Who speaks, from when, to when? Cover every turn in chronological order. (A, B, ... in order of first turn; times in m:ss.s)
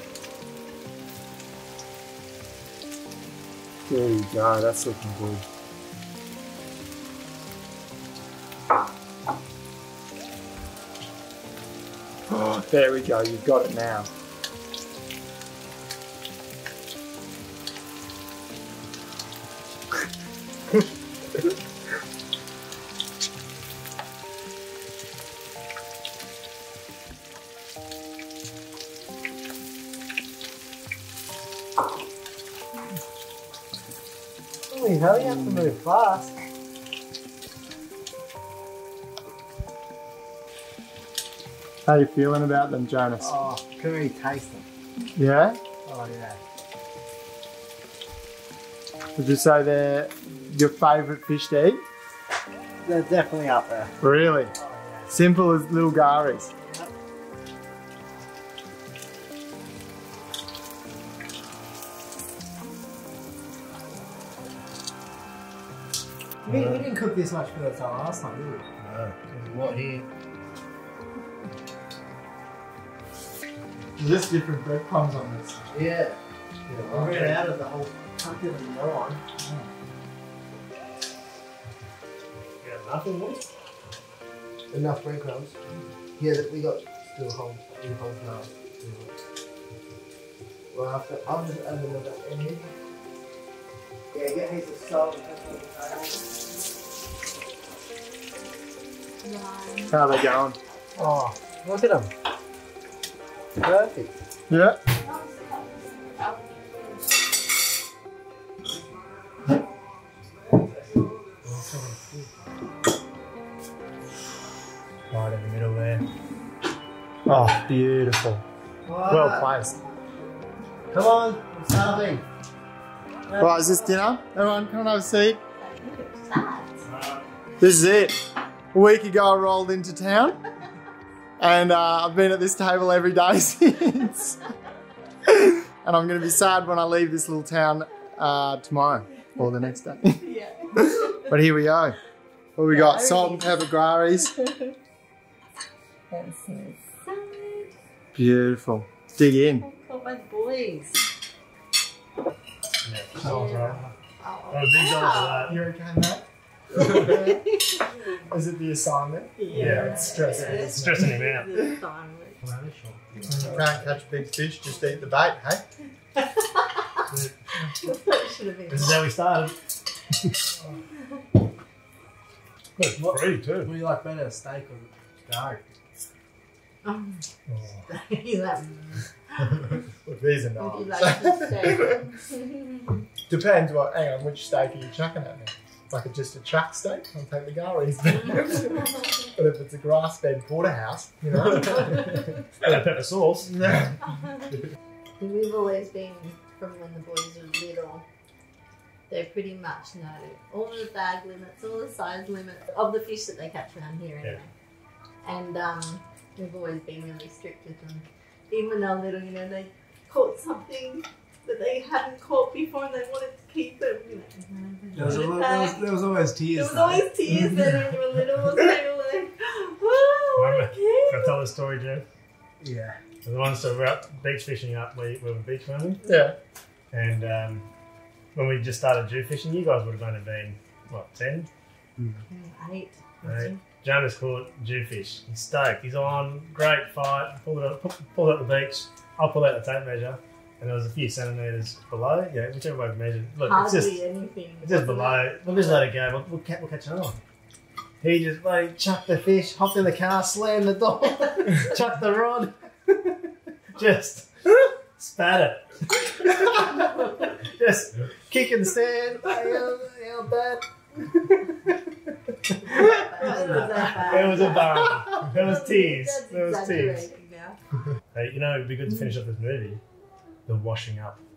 0:03.9-0:05.4 A
0:12.3-0:14.1 A
0:34.7-0:36.4 B
0:41.8-0:43.3 A
0:43.2-0:44.6 B
0:45.2-0:45.6 A
0:45.8-0:46.4 B
0:49.2-0:51.8 A
0:52.8-0:53.9 B
0:54.0-0:54.5 A
0:54.6-0:55.1 B
0:55.1-0:56.5 A
0:56.6-0:56.9 B
1:06.4-1:08.6 B
1:06.5-1:06.8 C
1:08.8-1:09.4 C
1:09.4-1:10.1 B
1:14.0-1:15.6 A
1:15.7-1:16.2 B
1:16.7-1:17.3 A
1:16.9-1:19.2 B
1:17.0-1:17.5 C
1:19.4-1:19.7 A
1:22.6-1:23.4 C
1:24.7-1:25.6 B
1:26.2-1:29.1 B
1:30.7-1:32.7 B
1:34.1-1:36.2 B
1:39.2-1:40.0 D
1:39.9-1:40.6 A
1:41.0-1:42.1 B
1:43.6-1:44.1 B
1:44.5-1:44.8 A
1:45.0-1:47.4 D
1:51.4-1:52.3 B
1:55.1-1:56.0 A
1:57.3-1:58.4 A
1:58.9-1:59.5 B
1:59.0-1:59.8 A
2:00.9-2:02.2 B
2:03.3-2:03.9 B
2:03.4-2:05.4 A
2:05.6-2:06.8 D
2:06.9-2:07.3 C
2:07.6-2:08.2 A
2:08.7-2:10.4 A
2:11.4-2:14.4 A
2:15.2-2:22.0 A
2:20.1-2:21.3 D
2:22.6-2:24.4 A
2:22.7-2:23.6 D
2:24.2-2:24.7 D
2:26.1-2:27.7 D
2:28.1-2:29.6 A
2:29.6-2:31.1 D
2:32.8-2:33.8 C
2:33.2-2:35.6 D
2:33.4-2:33.9 B
2:34.5-2:35.6 C
2:35.4-2:37.5 A
2:36.7-2:38.2 D
2:38.3-2:41.2 A
2:39.4-2:42.4 D
2:39.5-2:41.5 C
2:42.4-2:43.9 B
2:43.3-2:45.6 A
2:47.8-2:49.1 D
2:48.7-2:49.6 C
2:52.8-2:53.7 C
2:53.0-2:55.7 B
2:56.8-2:57.2 D
2:57.9-2:59.8 D
2:59.9-3:02.0 A
3:00.6-3:03.0 D
3:03.3-3:12.1 A
3:08.6-3:09.1 D
3:11.4-3:12.5 D
3:12.6-3:13.6 C
3:13.6-3:13.9 A
3:15.2-3:18.0 D
3:19.1-3:24.5 D
3:25.2-3:36.0 D
3:34.9-3:37.1 B
3:36.5-3:41.4 D
3:40.4-3:42.0 C
3:42.6-3:43.0 B
3:43.2-3:46.0 C
3:46.0-3:46.4 A
3:46.9-3:47.6 C
3:48.3-3:51.5 C
3:52.3-3:53.6 D
3:53.2-4:04.0 C
4:03.4-4:05.9 D
4:04.6-4:07.2 C
4:08.0-4:12.5 C
4:13.8-4:19.4 C
4:19.3-4:20.6 B
4:21.2-4:21.7 C
4:22.5-4:27.1 C
4:22.6-4:27.6 D
4:23.3-4:23.9 B
4:28.1-4:29.8 C
4:30.5-4:31.2 C